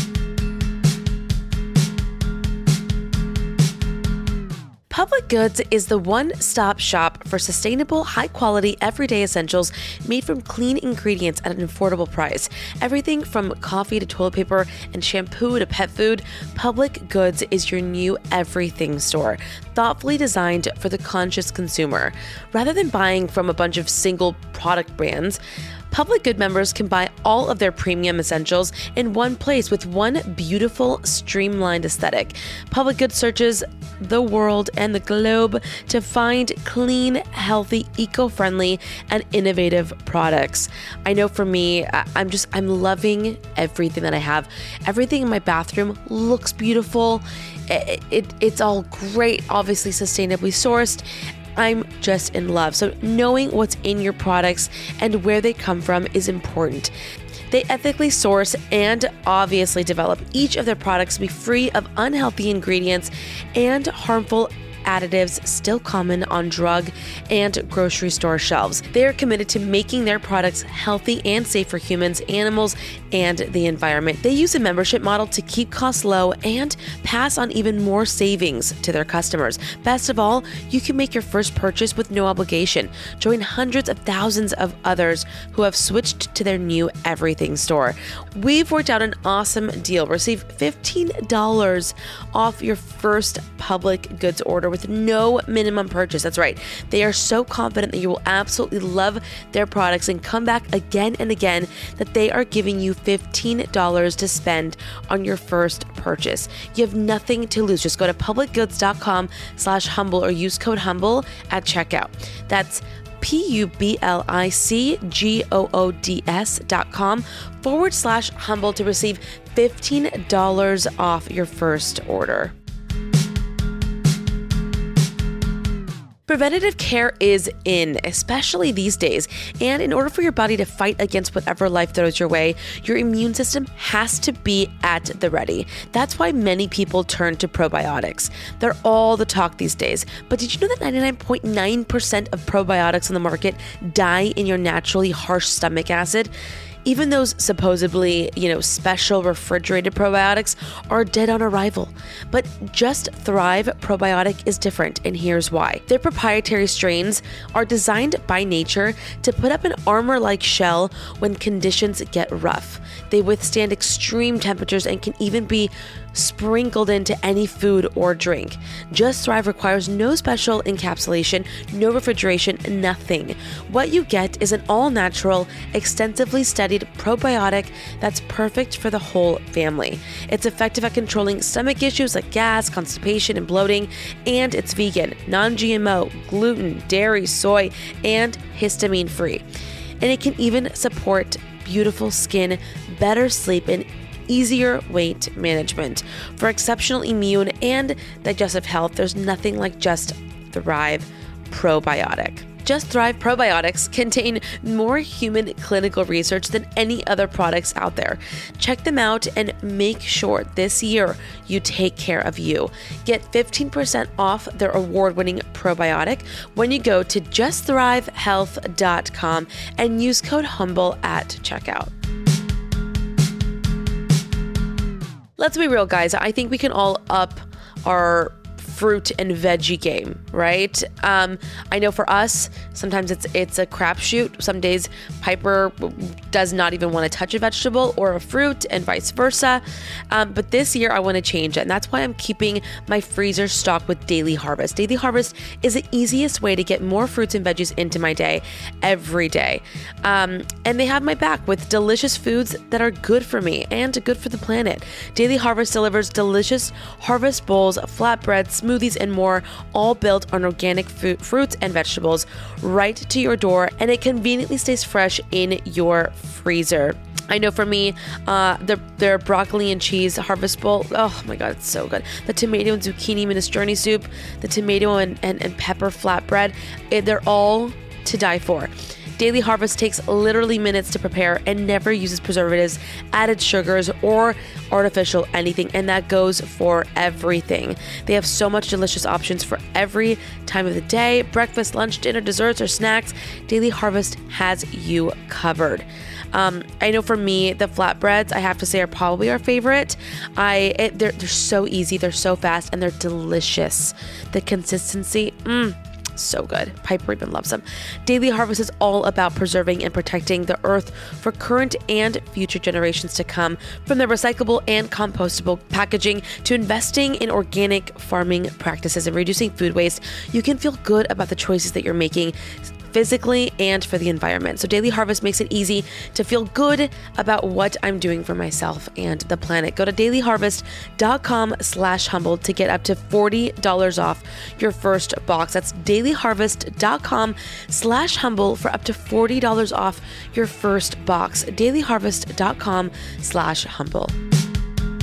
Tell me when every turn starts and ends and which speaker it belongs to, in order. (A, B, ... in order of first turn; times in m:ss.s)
0:04.9-0:25.4 A
0:25.9-0:51.0 A
0:51.6-0:56.9 A
0:57.5-2:02.5 A
2:06.3-2:26.3 A
2:26.8-3:09.4 A
3:10.0-3:41.9 A
3:45.4-5:22.4 A
5:22.9-5:44.1 A